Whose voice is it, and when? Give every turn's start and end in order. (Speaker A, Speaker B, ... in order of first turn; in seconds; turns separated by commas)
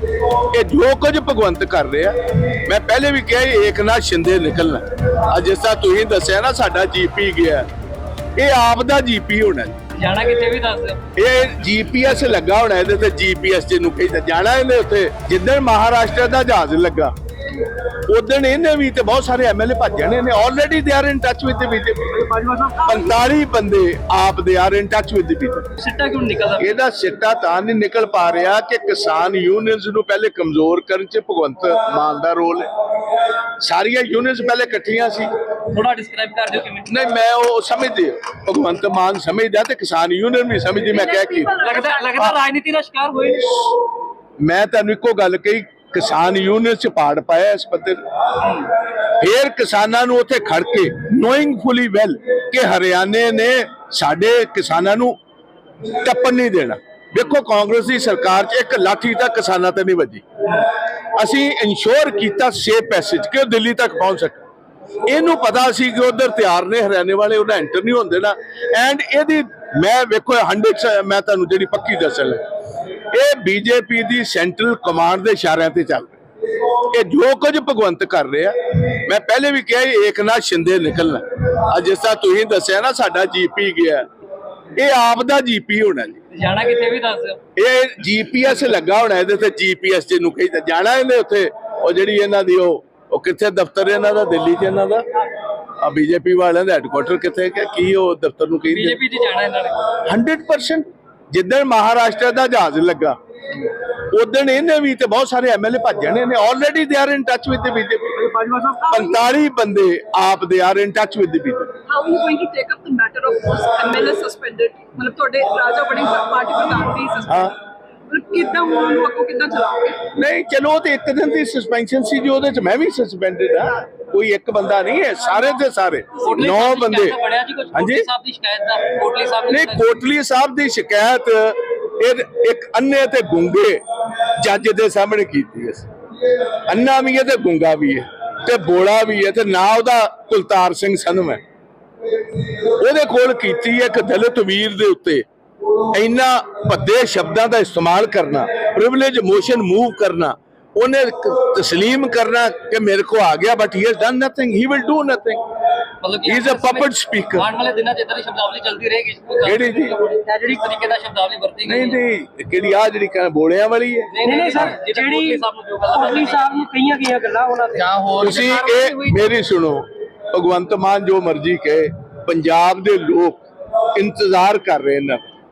Speaker A: 0.5-7.7, Speaker A: 8.4-9.8, Speaker B: 10.0-11.0, Speaker A: 11.2-17.1, Speaker A: 18.1-22.2, Speaker C: 22.3-23.0, Speaker A: 22.8-25.7, Speaker B: 25.8-26.7, Speaker A: 26.6-32.7, Speaker A: 33.6-35.3, Speaker B: 35.7-36.9, Speaker A: 36.9-41.6, Speaker D: 41.0-42.2, Speaker B: 41.6-43.7, Speaker A: 44.4-55.2, Speaker A: 55.9-64.4, Speaker A: 65.1-72.4, Speaker A: 73.1-84.1, Speaker A: 84.8-86.2, Speaker B: 86.3-87.4, Speaker A: 87.6-95.1, Speaker A: 95.8-99.0, Speaker B: 98.6-99.9, Speaker A: 100.0-111.7, Speaker D: 111.9-117.5, Speaker A: 117.3-117.5, Speaker D: 118.1-120.0, Speaker A: 120.1-127.2, Speaker B: 126.2-129.9, Speaker A: 127.7-128.1, Speaker A: 129.5-135.9, Speaker A: 136.7-141.4, Speaker A: 142.7-145.2, Speaker A: 145.8-155.4, Speaker B: 156.0-162.0, Speaker A: 156.3-157.5, Speaker A: 159.4-160.0, Speaker C: 160.2-160.6, Speaker A: 161.7-164.1, Speaker B: 164.1-166.7, Speaker C: 164.2-169.2, Speaker A: 168.1-173.4, Speaker B: 168.2-169.0, Speaker A: 173.9-175.2